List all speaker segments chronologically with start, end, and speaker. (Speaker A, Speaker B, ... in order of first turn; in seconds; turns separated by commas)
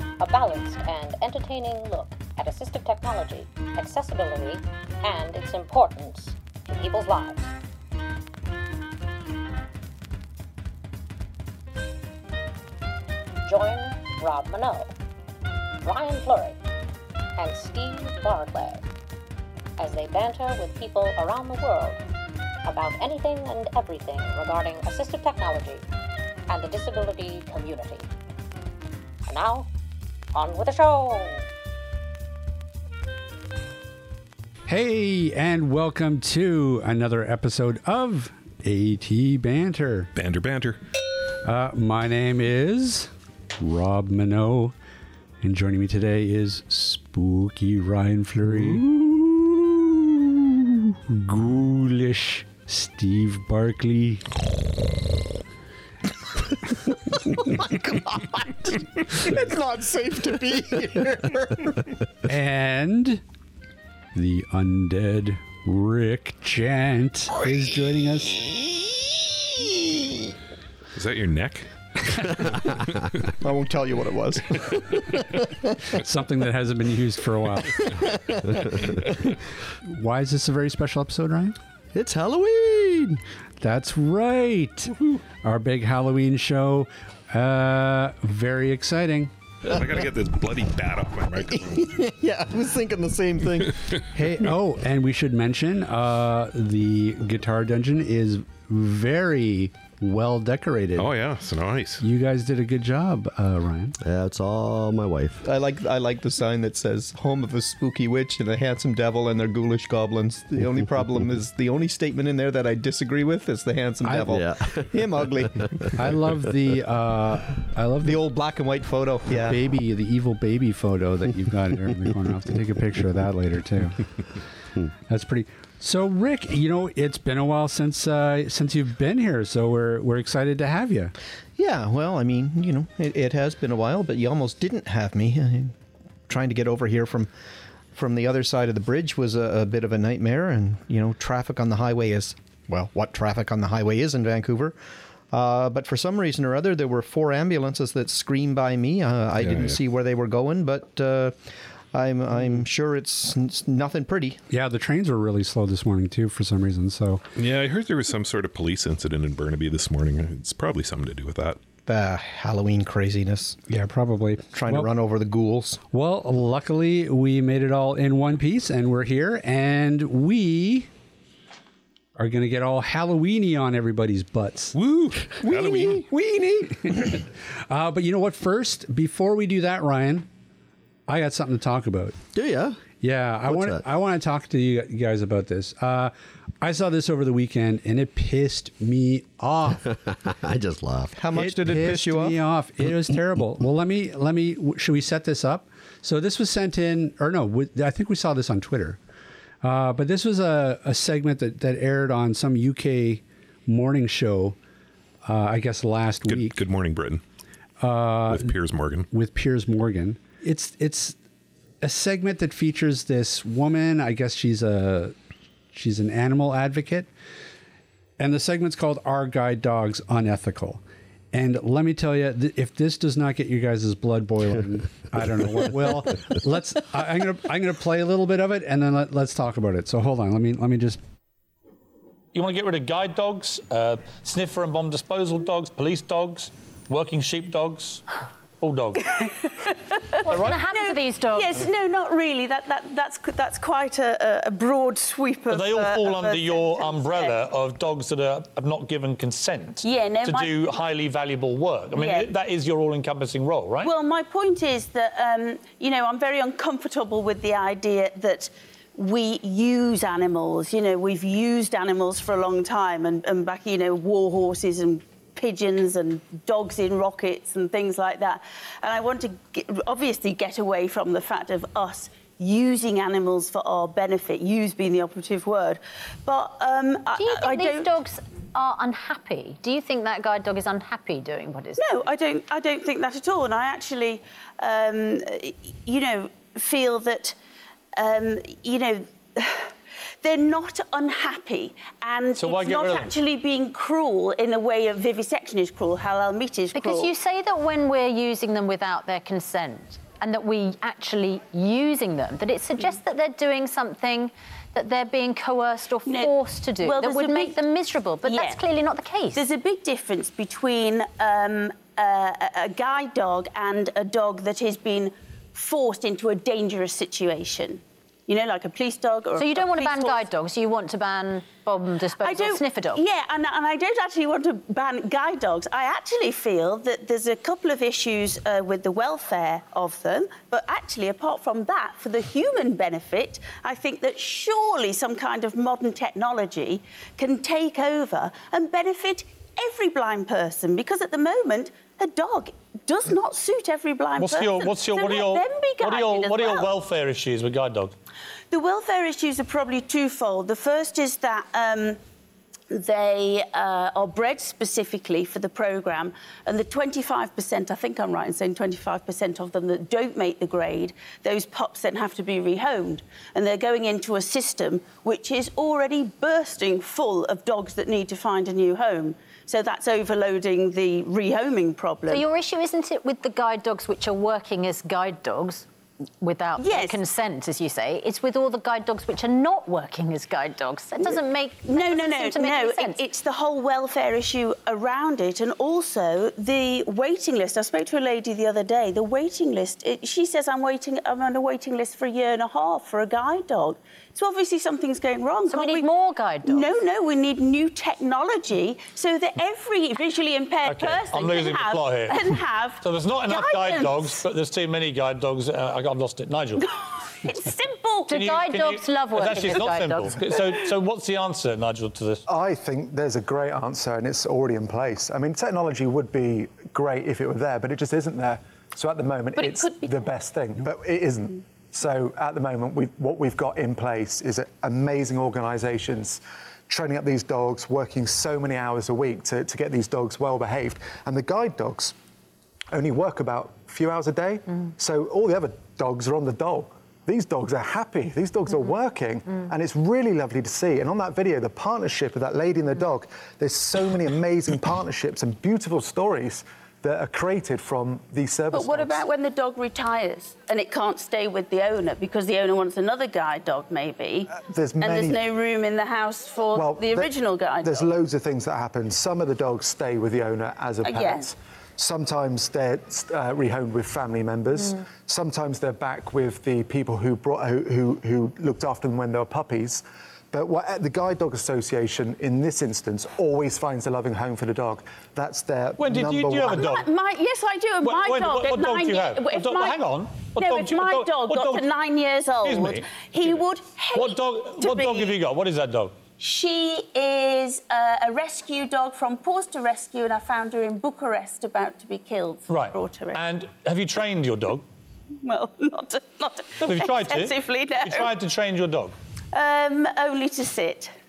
Speaker A: 0.2-7.5, Speaker A: 13.4-14.9, Speaker A: 15.8-16.6, Speaker A: 17.4-18.8, Speaker A: 19.8-22.0, Speaker A: 22.6-25.8, Speaker A: 26.5-28.1, Speaker A: 29.2-29.7, Speaker A: 30.3-31.4, Speaker B: 34.7-40.1, Speaker C: 40.1-40.8, Speaker B: 41.4-44.7, Speaker B: 45.4-49.0, Speaker B: 50.9-54.3, Speaker D: 57.5-61.8, Speaker B: 62.3-63.2, Speaker B: 64.1-68.6, Speaker C: 70.9-73.3, Speaker D: 73.4-75.7, Speaker B: 75.9-78.8, Speaker B: 79.8-81.5, Speaker E: 81.9-83.2, Speaker B: 83.6-89.3, Speaker C: 89.7-91.9, Speaker D: 91.7-93.8, Speaker B: 94.1-101.1, Speaker C: 101.0-102.0, Speaker B: 102.0-104.0, Speaker E: 104.0-105.4, Speaker D: 105.4-115.9, Speaker E: 114.2-115.1, Speaker B: 116.0-118.2, Speaker D: 118.0-119.6, Speaker B: 119.4-124.0, Speaker B: 125.1-131.1, Speaker D: 131.6-135.7, Speaker D: 136.3-137.3, Speaker D: 137.9-144.8, Speaker D: 145.3-154.4, Speaker C: 149.4-149.8, Speaker B: 154.5-157.2, Speaker C: 157.3-161.6, Speaker D: 161.8-163.6, Speaker B: 163.7-164.9, Speaker D: 164.5-165.8, Speaker B: 165.9-170.9, Speaker B: 172.2-174.8, Speaker C: 174.7-176.1, Speaker D: 175.4-177.1, Speaker B: 176.7-180.3, Speaker B: 181.1-182.2, Speaker E: 182.3-182.8, Speaker B: 183.0-189.9, Speaker E: 183.5-183.8, Speaker E: 189.9-191.2, Speaker D: 191.2-192.4, Speaker B: 191.3-199.0, Speaker B: 199.6-204.6, Speaker B: 205.2-206.6, Speaker C: 206.2-207.2, Speaker B: 207.8-208.5, Speaker C: 208.3-209.1, Speaker B: 209.1-211.2, Speaker B: 211.8-215.1, Speaker B: 215.7-217.1, Speaker B: 218.2-220.8, Speaker B: 221.3-231.0, Speaker F: 232.3-238.0, Speaker F: 238.6-239.2, Speaker G: 239.0-247.4, Speaker F: 240.2-240.6, Speaker H: 240.2-241.5, Speaker F: 245.5-253.9, Speaker G: 249.8-250.8, Speaker G: 251.9-252.3, Speaker G: 253.8-277.9, Speaker H: 277.2-281.9, Speaker G: 281.8-287.4, Speaker G: 287.9-289.7, Speaker G: 290.2-297.1, Speaker F: 292.4-293.2, Speaker H: 296.7-309.4, Speaker G: 306.1-307.6, Speaker G: 308.2-308.6, Speaker G: 309.3-320.3, Speaker H: 319.4-323.0, Speaker G: 322.2-346.7, Speaker F: 344.2-347.9, Speaker G: 348.5-352.0, Speaker G: 352.7-372.2, Speaker H: 372.1-375.6, Speaker H: 376.2-383.0, Speaker G: 376.6-377.0, Speaker G: 381.0-395.9, Speaker H: 395.5-396.7, Speaker G: 396.4-404.2, Speaker F: 400.6-406.7, Speaker G: 406.6-408.3, Speaker H: 408.1-410.4, Speaker F: 408.1-412.2, Speaker I: 412.3-431.9, Speaker G: 419.4-420.0, Speaker I: 432.7-449.0, Speaker G: 448.5-457.9, Speaker I: 454.3-455.2, Speaker I: 456.5-476.7, Speaker G: 460.8-461.3, Speaker F: 475.8-476.9, Speaker G: 476.5-485.2, Speaker F: 477.8-481.7, Speaker F: 482.4-483.4, Speaker F: 483.9-485.9, Speaker G: 486.2-493.2, Speaker F: 492.5-494.6, Speaker G: 495.2-498.1, Speaker F: 496.6-498.9, Speaker G: 499.3-500.9